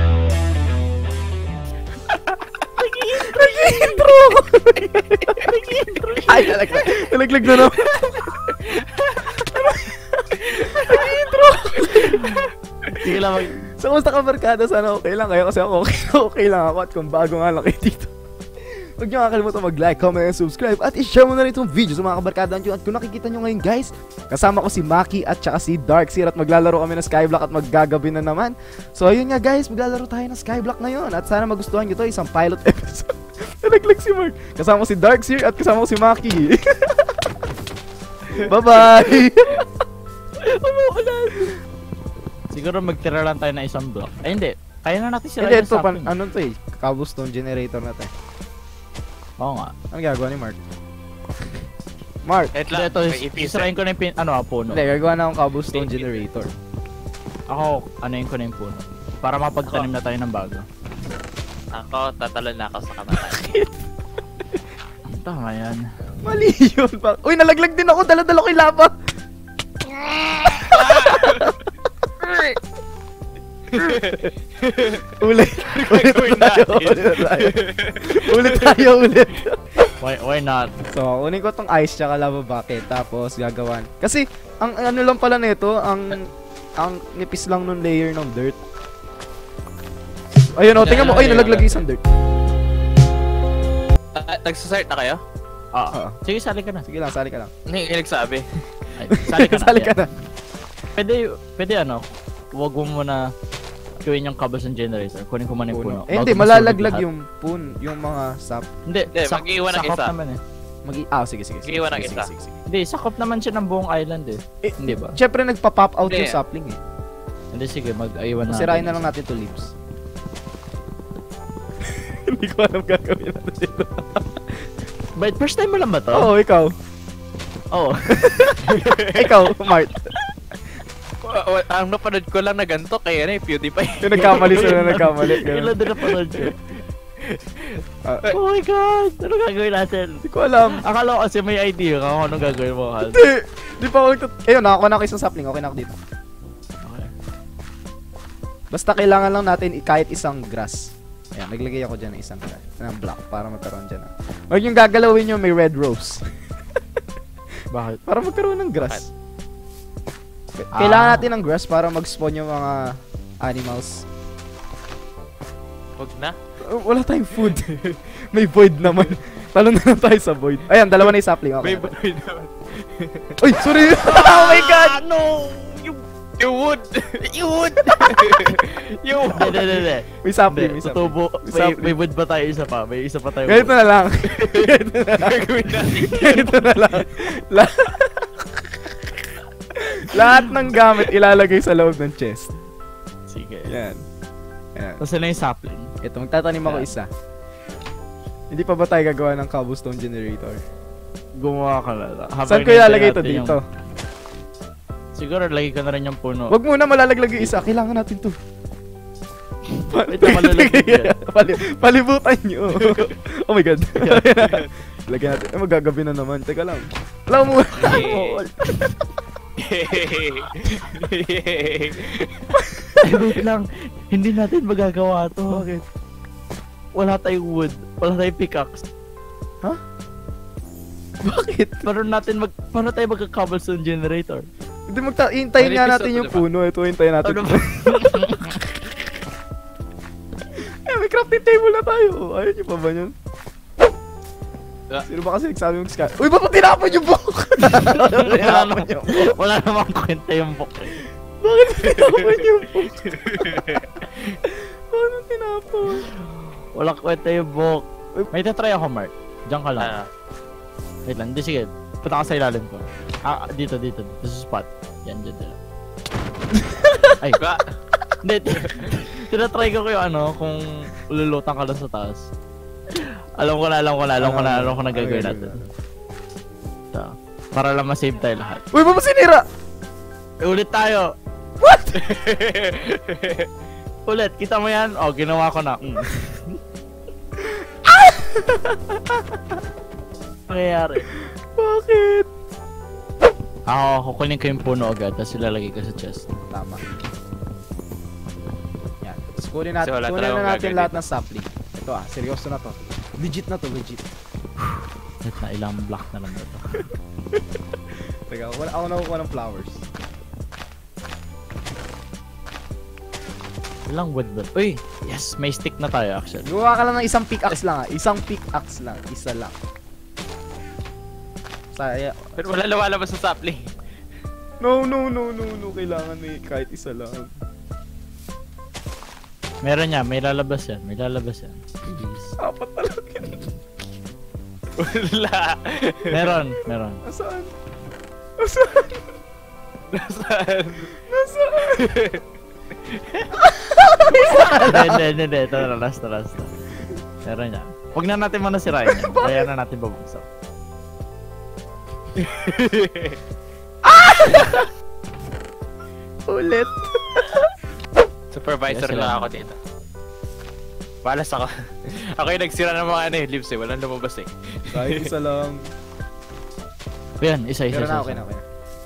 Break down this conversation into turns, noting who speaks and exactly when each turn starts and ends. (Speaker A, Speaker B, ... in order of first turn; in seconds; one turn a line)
Speaker A: 2.1-2.4
Speaker B: 2.8-4.4
Speaker C: 3.1-5.5
Speaker B: 5.4-7.1
Speaker C: 6.3-12.5
Speaker A: 8.6-9.2
Speaker A: 10.5-11.1
Speaker B: 11.9-12.4
Speaker B: 12.9-13.6
Speaker C: 13.6-18.1
Speaker C: 19.0-37.2
Speaker C: 38.3-39.7
Speaker B: 40.4-41.5
Speaker B: 42.5-46.1
Speaker C: 45.4-48.1
Speaker B: 49.4-49.7
Speaker C: 49.9-50.6
Speaker C: 52.2-52.5
Speaker A: 52.5-53.7
Speaker B: 52.7-54.9
Speaker C: 54.7-56.5
Speaker A: 55.7-56.1
Speaker B: 57.5-60.6
Speaker A: 61.7-63.5
Speaker C: 63.1-63.7
Speaker B: 65.1-65.8
Speaker C: 66.2-68.9
Speaker C: 69.9-71.5
Speaker A: 70.7-71.5
Speaker A: 72.2-72.5
Speaker A: 73.7-78.9
Speaker C: 73.7-74.3
Speaker C: 74.8-79.8
Speaker B: 80.0-80.7
Speaker C: 80.9-88.6
Speaker C: 90.5-92.0
Speaker A: 90.8-91.6
Speaker B: 90.8-91.8
Speaker A: 94.1-95.2
Speaker B: 95.7-96.8
Speaker C: 95.9-96.2
Speaker C: 96.8-97.5
Speaker A: 97.7-98.4
Speaker B: 99.0-100.0
Speaker C: 99.2-100.1
Speaker B: 101.0-103.2
Speaker B: 104.0-107.0
Speaker C: 105.7-108.7
Speaker B: 108.9-110.4
Speaker A: 109.1-110.1
Speaker C: 110.8-112.6
Speaker A: 111.6-112.3
Speaker B: 112.7-115.2
Speaker C: 114.6-116.8
Speaker A: 116.0-116.4
Speaker B: 117.5-119.0
Speaker C: 118.5-119.7
Speaker C: 121.9-124.6
Speaker B: 125.2-126.3
Speaker C: 126.1-126.7
Speaker B: 127.7-128.7
Speaker C: 128.2-130.2
Speaker A: 128.7-129.3
Speaker A: 131.2-134.8
Speaker C: 134.0-135.8
Speaker B: 134.1-136.7
Speaker A: 137.2-138.4
Speaker C: 138.1-138.3
Speaker B: 138.3-143.2
Speaker C: 140.3-140.8
Speaker C: 143.1-146.0
Speaker B: 146.8-147.1
Speaker C: 148.7-156.2
Speaker B: 157.7-158.0
Speaker C: 158.0-159.1
Speaker C: 160.6-164.1
Speaker B: 160.7-161.3
Speaker A: 166.0-166.4
Speaker C: 166.6-171.9
Speaker A: 171.6-173.4
Speaker C: 173.4-175.0
Speaker B: 173.9-176.1
Speaker A: 174.4-174.8
Speaker A: 176.4-179.9
Speaker B: 179.2-183.7
Speaker C: 180.2-182.0
Speaker C: 183.5-189.2
Speaker A: 184.3-186.4
Speaker C: 189.7-192.5
Speaker B: 190.1-190.9
Speaker B: 193.3-193.7
Speaker C: 193.7-194.0
Speaker C: 194.8-195.0
Speaker B: 195.0-195.9
Speaker C: 196.0-197.1
Speaker B: 196.6-196.9
Speaker C: 198.5-200.6
Speaker B: 201.4-203.6
Speaker C: 202.5-203.6
Speaker B: 205.2-206.5
Speaker C: 206.5-208.4
Speaker C: 209.9-218.1
Speaker B: 210.0-211.1
Speaker B: 214.0-214.3
Speaker A: 217.8-218.4
Speaker B: 217.8-218.5
Speaker C: 218.7-218.9
Speaker A: 219.6-222.5
Speaker C: 222.6-223.3
Speaker B: 223.0-225.7
Speaker C: 225.5-225.9
Speaker B: 226.9-228.8
Speaker C: 231.2-231.9
Speaker B: 231.8-234.5
Speaker C: 234.9-238.8
Speaker A: 235.6-236.4
Speaker B: 237.2-238.6
Speaker C: 240.8-243.1
Speaker C: 245.1-249.4
Speaker B: 247.6-251.0
Speaker C: 251.4-256.1
Speaker A: 252.9-254.0
Speaker B: 256.7-259.9
Speaker A: 259.8-260.1
Speaker B: 261.1-265.6
Speaker C: 266.6-267.1
Speaker A: 267.4-267.7
Speaker B: 268.2-272.3
Speaker A: 268.6-268.9
Speaker B: 272.9-275.6
Speaker C: 274.2-275.7
Speaker B: 276.9-278.6
Speaker C: 278.7-279.4
Speaker B: 280.4-281.1
Speaker C: 281.6-282.1
Speaker A: 281.9-283.5
Speaker B: 284.1-286.6
Speaker C: 287.4-289.4
Speaker B: 290.5-291.1
Speaker C: 291.6-292.3
Speaker B: 293.7-296.3
Speaker C: 296.4-296.9
Speaker C: 299.0-304.1
Speaker A: 299.8-300.9
Speaker B: 305.2-306.9
Speaker C: 308.3-309.9
Speaker B: 313.9-316.5
Speaker C: 316.4-319.6
Speaker C: 321.7-322.4
Speaker A: 322.4-323.7
Speaker C: 324.6-327.3
Speaker B: 329.6-332.2
Speaker C: 332.0-333.6
Speaker A: 334.8-336.4
Speaker B: 336.1-337.0
Speaker C: 337.1-337.5
Speaker C: 338.4-339.1
Speaker A: 339.9-340.9
Speaker C: 340.9-341.9
Speaker A: 341.7-342.2
Speaker A: 342.9-343.3
Speaker C: 343.4-345.0
Speaker B: 344.1-346.5
Speaker B: 347.2-350.2
Speaker C: 348.9-349.5
Speaker A: 352.2-353.2
Speaker C: 353.9-354.7
Speaker C: 356.3-357.4
Speaker A: 358.3-359.6
Speaker B: 358.7-359.5
Speaker A: 361.0-365.1
Speaker C: 364.7-365.7
Speaker B: 367.2-368.2
Speaker C: 367.7-368.4